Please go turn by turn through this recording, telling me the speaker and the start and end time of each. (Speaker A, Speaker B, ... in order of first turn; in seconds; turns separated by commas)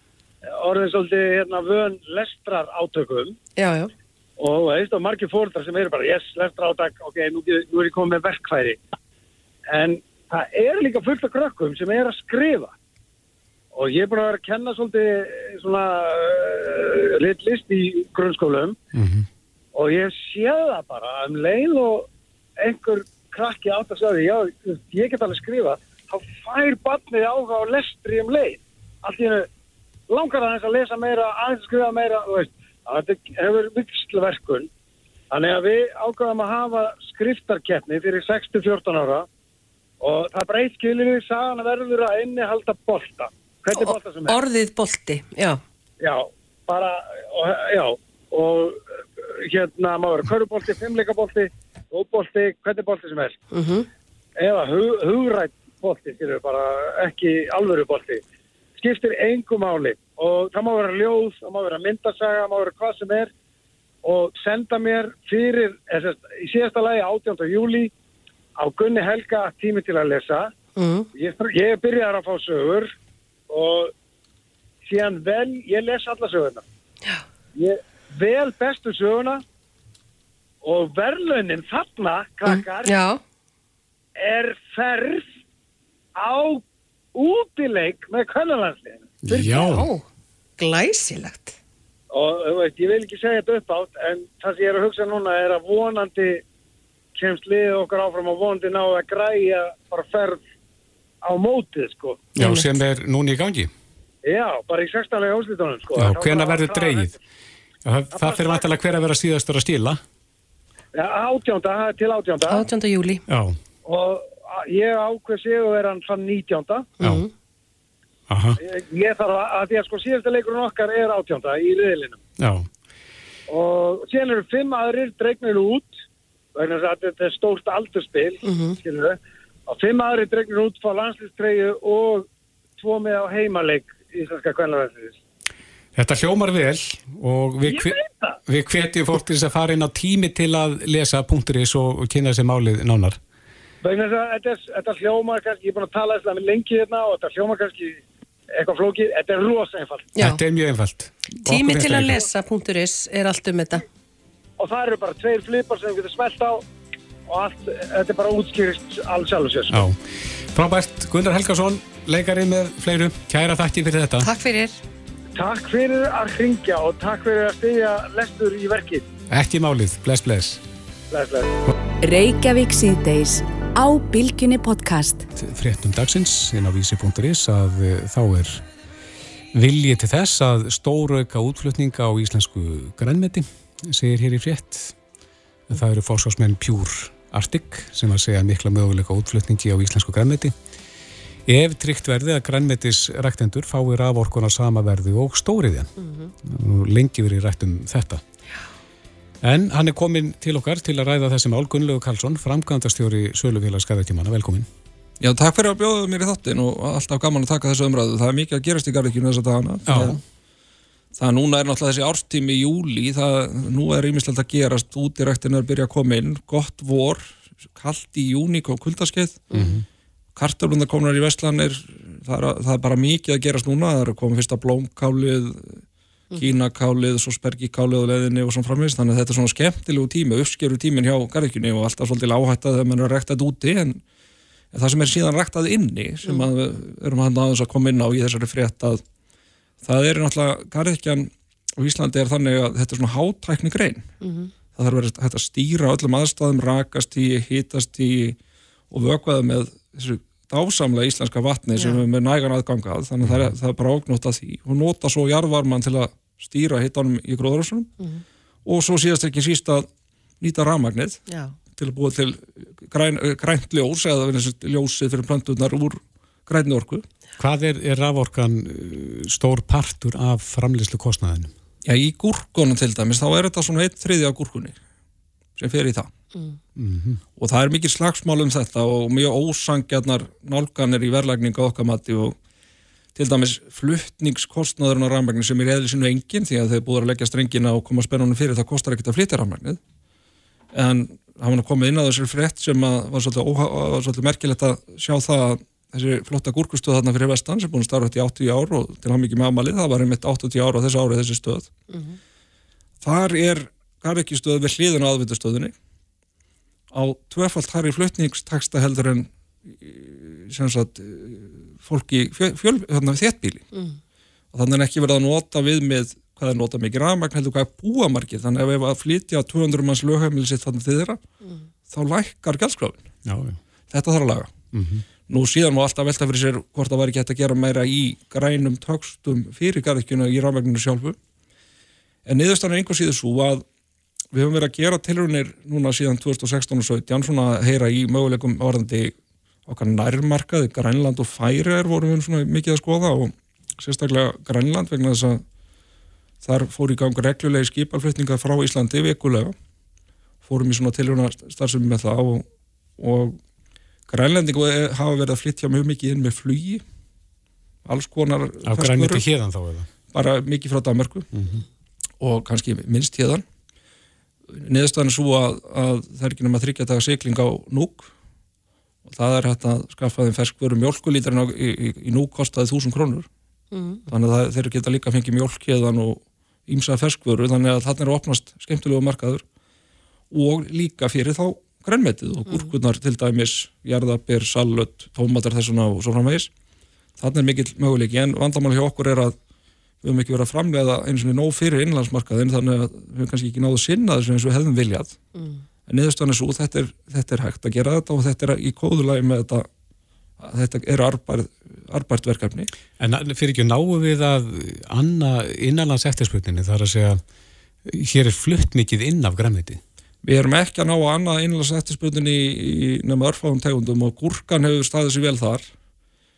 Speaker A: 0.5-3.4, Speaker B: 3.5-3.9, Speaker A: 4.4-8.8, Speaker A: 9.7-12.7, Speaker A: 13.7-18.8, Speaker C: 18.9-19.3, Speaker A: 19.7-22.1, Speaker A: 22.6-29.5, Speaker A: 30.1-34.7, Speaker A: 35.3-39.2, Speaker A: 40.0-44.4, Speaker B: 43.7-45.6, Speaker A: 46.0-48.8, Speaker A: 49.4-53.4, Speaker B: 53.5-53.9, Speaker A: 54.4-58.2, Speaker A: 58.8-63.3, Speaker A: 64.0-67.9, Speaker A: 68.6-70.5, Speaker B: 70.8-71.1, Speaker A: 71.1-72.9, Speaker A: 73.5-73.9, Speaker A: 74.8-76.6, Speaker A: 77.5-79.4, Speaker A: 80.6-82.9, Speaker B: 82.5-83.2, Speaker A: 84.2-85.3, Speaker A: 86.2-86.6, Speaker A: 87.1-89.1, Speaker C: 89.2-89.9, Speaker B: 89.3-90.0, Speaker B: 90.6-91.5, Speaker A: 92.1-96.4, Speaker A: 97.1-100.4, Speaker A: 101.2-102.3, Speaker C: 102.3-103.7, Speaker B: 102.4-102.7, Speaker A: 104.2-107.2, Speaker C: 106.0-107.1, Speaker C: 107.8-110.0, Speaker A: 108.1-108.6, Speaker A: 110.9-112.7, Speaker B: 112.5-113.2, Speaker C: 113.3-113.6, Speaker A: 113.8-116.9, Speaker B: 117.0-117.3, Speaker C: 117.0-117.2, Speaker C: 118.3-118.6, Speaker A: 118.6-122.2, Speaker C: 122.4-122.7, Speaker A: 123.5-125.9, Speaker A: 126.5-132.3, Speaker B: 128.4-128.8, Speaker A: 132.8-135.2, Speaker C: 135.9-143.2, Speaker A: 137.7-138.4, Speaker A: 143.8-148.0, Speaker A: 148.5-150.2, Speaker B: 150.2-150.4, Speaker C: 150.2-152.2, Speaker B: 151.4-153.8, Speaker A: 154.6-156.6, Speaker A: 157.3-159.8, Speaker C: 159.7-164.3, Speaker B: 164.2-164.8, Speaker A: 165.3-169.0, Speaker C: 169.3-170.6, Speaker A: 171.1-171.5, Speaker D: 172.0-175.3, Speaker C: 175.3-178.6, Speaker C: 179.5-184.9, Speaker C: 185.7-190.5, Speaker C: 191.5-198.2, Speaker B: 196.0-196.3, Speaker C: 199.4-204.7, Speaker E: 205.2-210.2, Speaker C: 209.8-210.2, Speaker E: 211.2-219.4, Speaker C: 219.5-219.8, Speaker B: 219.5-219.8, Speaker E: 220.3-225.8, Speaker E: 226.3-234.0, Speaker E: 234.7-239.0, Speaker B: 236.2-236.5, Speaker E: 239.8-244.1, Speaker B: 244.2-244.5, Speaker E: 244.7-248.4, Speaker E: 248.9-257.9, Speaker B: 251.7-252.0, Speaker C: 253.2-253.5, Speaker E: 258.6-259.9, Speaker E: 260.4-261.2, Speaker B: 261.3-261.5, Speaker E: 261.7-267.0, Speaker C: 267.4-271.5, Speaker E: 271.8-274.8, Speaker E: 275.6-276.1, Speaker C: 276.8-277.2, Speaker E: 277.4-282.4, Speaker E: 283.1-289.8, Speaker E: 290.7-301.7, Speaker B: 301.9-302.2, Speaker E: 303.0-305.7, Speaker E: 306.9-313.6, Speaker E: 314.5-321.2, Speaker E: 321.9-323.0, Speaker C: 323.2-323.6, Speaker E: 323.9-324.6, Speaker C: 324.7-325.0, Speaker E: 325.3-331.2, Speaker E: 332.2-333.6, Speaker E: 334.3-339.1, Speaker E: 339.7-345.4, Speaker E: 346.4-349.5, Speaker E: 350.4-352.4, Speaker E: 353.0-353.4, Speaker E: 354.1-356.8, Speaker E: 357.9-359.3, Speaker C: 358.6-359.9, Speaker E: 360.1-361.3, Speaker C: 361.3-361.6, Speaker E: 362.2-363.4, Speaker E: 364.6-368.1, Speaker E: 369.0-373.3, Speaker B: 373.7-374.0, Speaker E: 374.1-379.4, Speaker E: 380.3-386.5, Speaker B: 382.4-382.7, Speaker E: 387.2-389.4, Speaker E: 390.0-395.2, Speaker B: 395.3-395.6, Speaker E: 395.9-399.7, Speaker E: 400.4-402.7, Speaker C: 403.0-407.2, Speaker C: 407.9-409.8, Speaker E: 410.2-415.7